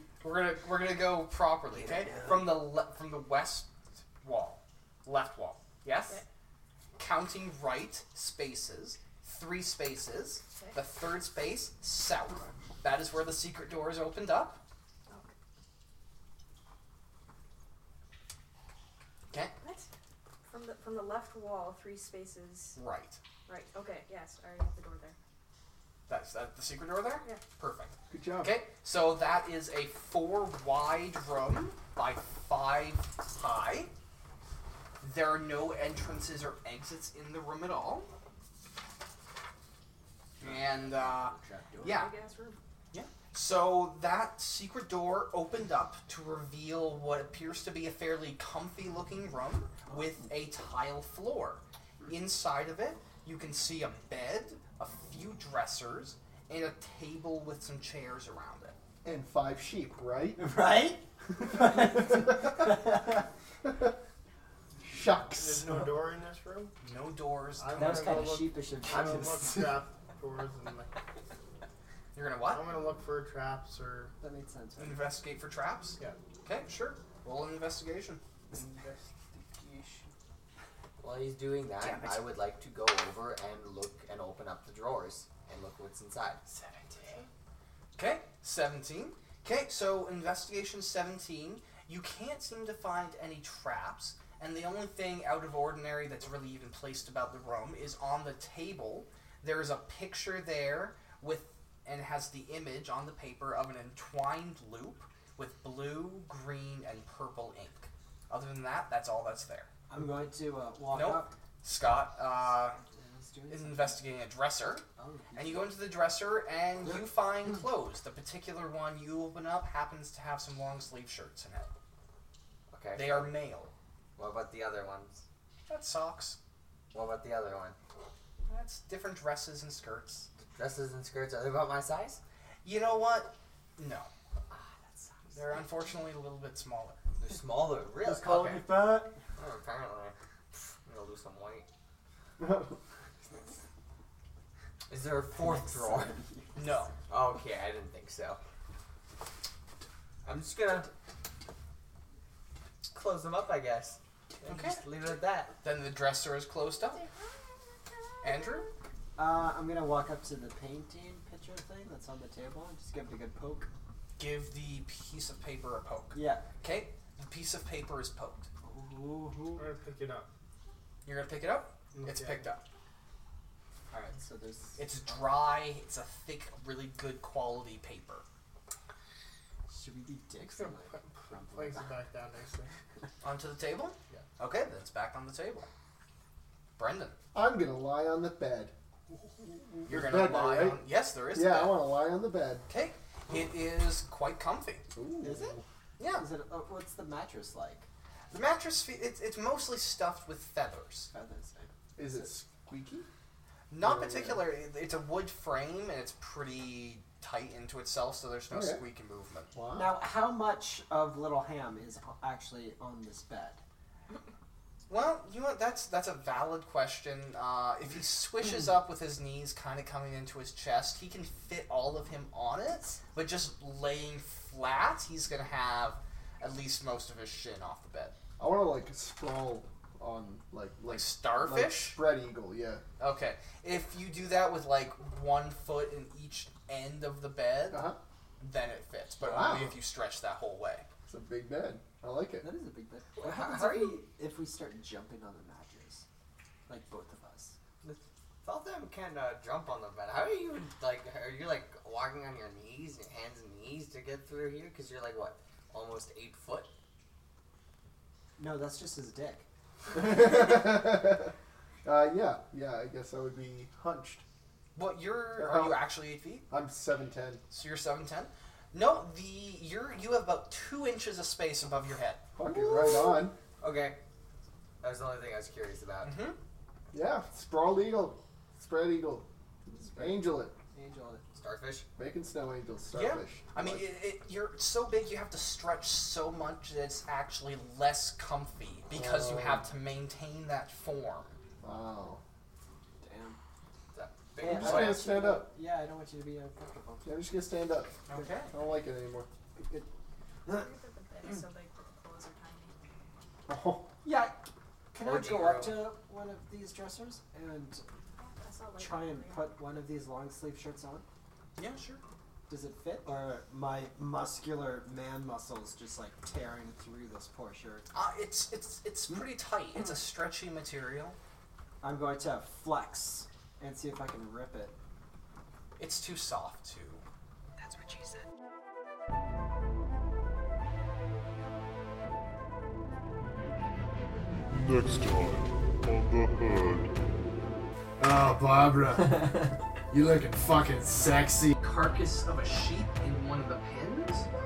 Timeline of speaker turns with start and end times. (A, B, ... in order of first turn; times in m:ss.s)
0:00.2-0:06.2 A
0:01.7-0:02.6 B
0:07.0-0:14.6 A
0:10.4-0:10.8 C
0:19.6-0:19.9 C
0:20.4-0:22.8 C
0:22.7-0:23.2 A
0:23.4-0:25.2 C
0:26.1-0:33.9 A
0:28.1-0:28.5 D
0:35.0-0:38.1 A
0:40.4-0:42.0 B
0:40.4-0:42.1 A
0:41.8-0:42.6 C
0:42.9-0:58.8 A
0:59.0-1:00.4 D
1:00.4-1:03.3 B
1:01.4-1:02.8 D
1:03.6-1:03.9 D
1:04.8-1:06.0 D
1:05.3-1:06.7 E
1:06.8-1:08.4 A
1:07.6-1:10.9 E
1:07.7-1:09.8 B
1:12.1-1:12.7 A
1:12.4-1:14.1 E
1:14.2-1:15.0 B
1:14.8-1:18.2 A
1:18.5-1:19.8 B
1:21.0-1:26.4 F
1:21.8-1:22.2 A
1:26.5-1:27.2 A
1:26.9-1:27.1 B
1:27.9-1:49.7 A
1:49.9-1:51.3 B
1:50.9-1:52.8 A
1:52.8-1:54.0 B
1:53.5-2:01.7 A
1:55.0-1:55.8 B
2:02.7-2:03.3 F
2:02.9-2:03.7 A
2:04.2-2:05.2 F
2:05.7-2:06.4 A
2:06.9-2:07.8 F
2:08.4-2:10.3 A
2:10.4-2:12.2 F
2:12.6-2:14.1 A
2:14.5-2:15.2 F
2:15.3-2:17.0 A
2:17.2-2:20.1 F
2:18.0-2:19.2 B
2:20.8-2:21.7 F
2:22.4-2:22.8 D
2:24.9-2:26.2 F
2:25.4-2:26.9 B
2:26.6-2:26.9 A
2:27.1-2:28.4 F
2:30.2-2:30.9 F
2:32.9-2:35.6 F
2:34.4-2:34.8 A
2:35.6-2:37.0 A
2:36.8-2:38.7 C
2:38.2-2:38.7 A
2:39.2-2:43.7 B
2:44.2-2:48.5 A
2:46.1-2:46.4 B
2:48.6-2:49.7 B
2:49.5-2:50.3 E
2:51.0-2:52.6 A
2:51.9-2:52.4 E
2:53.9-2:55.0 B
2:54.8-2:58.2 A
2:59.7-3:02.1 B
3:00.4-3:02.7 E
3:03.2-3:05.7 A
3:06.8-3:07.2 A
3:07.3-3:08.7 D
3:09.8-3:12.7 D
3:09.9-3:12.0 A
3:12.7-3:14.9 A
3:14.9-3:15.6 D
3:15.2-3:15.6 B
3:16.0-3:16.2 A
3:16.1-3:17.9 B
3:18.3-3:21.1 A
3:21.1-3:22.3 B
3:22.0-3:23.1 D
3:23.7-3:29.5 A
3:23.8-3:24.5 D
3:28.5-3:28.8 D
3:29.5-3:30.0 D
3:29.7-3:33.6 B
3:34.9-3:48.1 A
3:48.4-3:52.8 D
3:50.8-3:52.0 A
3:53.0-4:00.9 A
3:57.7-3:58.0 D
3:59.2-3:59.8 D
4:01.1-4:02.5 D
4:02.4-4:06.0 B
4:03.2-4:04.0 F
4:06.7-4:07.6 B
4:07.8-4:16.7 F
4:18.4-4:19.4 B
4:19.9-4:24.2 D
4:24.8-4:26.5 A
4:25.3-4:26.0 D
4:26.5-4:27.4 D
4:27.5-4:32.2 A
4:32.4-4:33.4 D
4:33.6-4:34.0 F
4:34.8-4:36.2 F
4:36.0-4:36.4 A
4:36.9-4:39.3 D
4:39.7-4:41.2 B
4:39.9-4:40.6 D
4:41.3-4:41.9 F
4:42.0-4:43.8 D
4:42.9-4:51.3 A
4:48.9-4:49.7 D
4:51.6-4:52.2 D
4:53.0-4:53.4 B
4:53.9-4:55.1 F
4:54.4-4:57.2 B
4:54.4-4:55.5 D
4:57.0-4:59.3 D
4:58.1-4:58.5 A
4:58.1-4:58.4 B
4:59.5-4:59.9 B
5:00.4-5:02.8 C
5:03.4-5:03.9 D
5:04.0-5:04.4 B
5:04.9-5:07.8 B
5:05.0-5:05.9 F
5:08.2-5:09.6 C
5:08.8-5:11.0 B
5:11.6-5:12.0 A
5:12.5-5:17.9 B
5:17.9-5:21.2 A
5:21.8-5:24.8 B
5:25.8-5:27.0 A
5:27.6-5:28.2 B
5:34.5-5:36.9 G
5:38.0-5:41.5 D
5:41.6-5:44.3 A